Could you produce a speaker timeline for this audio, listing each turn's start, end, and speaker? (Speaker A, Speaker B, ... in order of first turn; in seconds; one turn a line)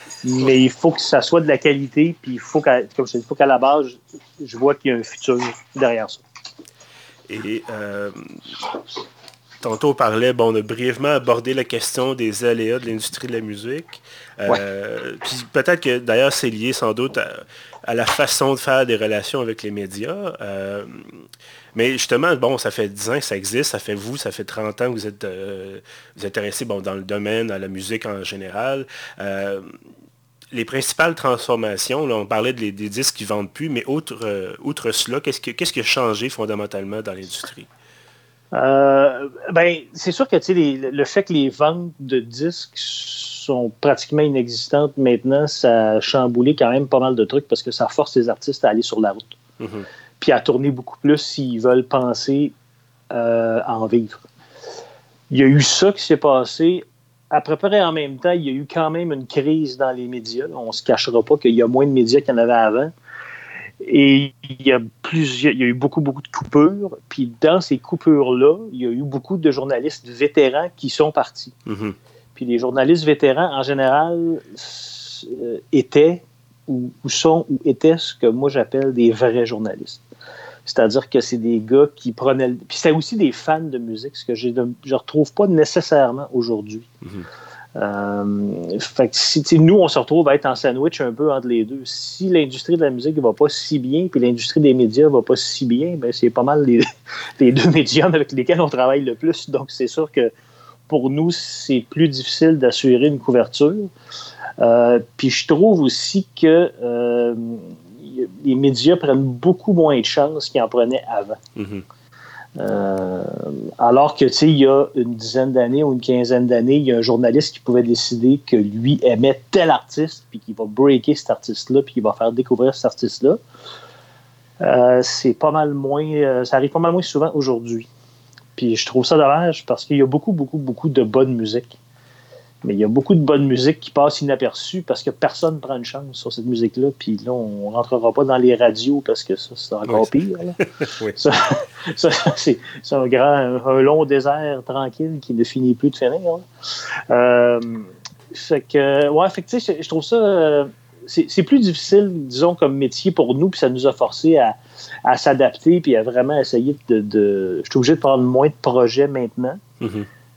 Speaker A: 0.2-6.2
Speaker B: 7.3-8.4
Speaker B: 9.6-21.2
Speaker B: 21.7-29.7
Speaker B: 30.5-37.7
Speaker A: 38.5-49.4
Speaker B: 49.6-49.9
Speaker A: 50.2-52.5
Speaker A: 53.1-54.2
Speaker A: 55.3-62.9
Speaker A: 63.8-71.5
Speaker B: 71.7-72.0
Speaker A: 72.3-80.0
Speaker A: 80.6-86.9
Speaker A: 87.8-100.3
Speaker A: 100.9-103.9
Speaker A: 104.6-111.4
Speaker B: 111.5-111.8
Speaker A: 112.6-123.4
Speaker A: 124.6-127.9
Speaker A: 128.6-131.8
Speaker A: 132.6-140.6
Speaker B: 139.9-141.2
Speaker A: 141.2-159.6
Speaker B: 159.8-160.1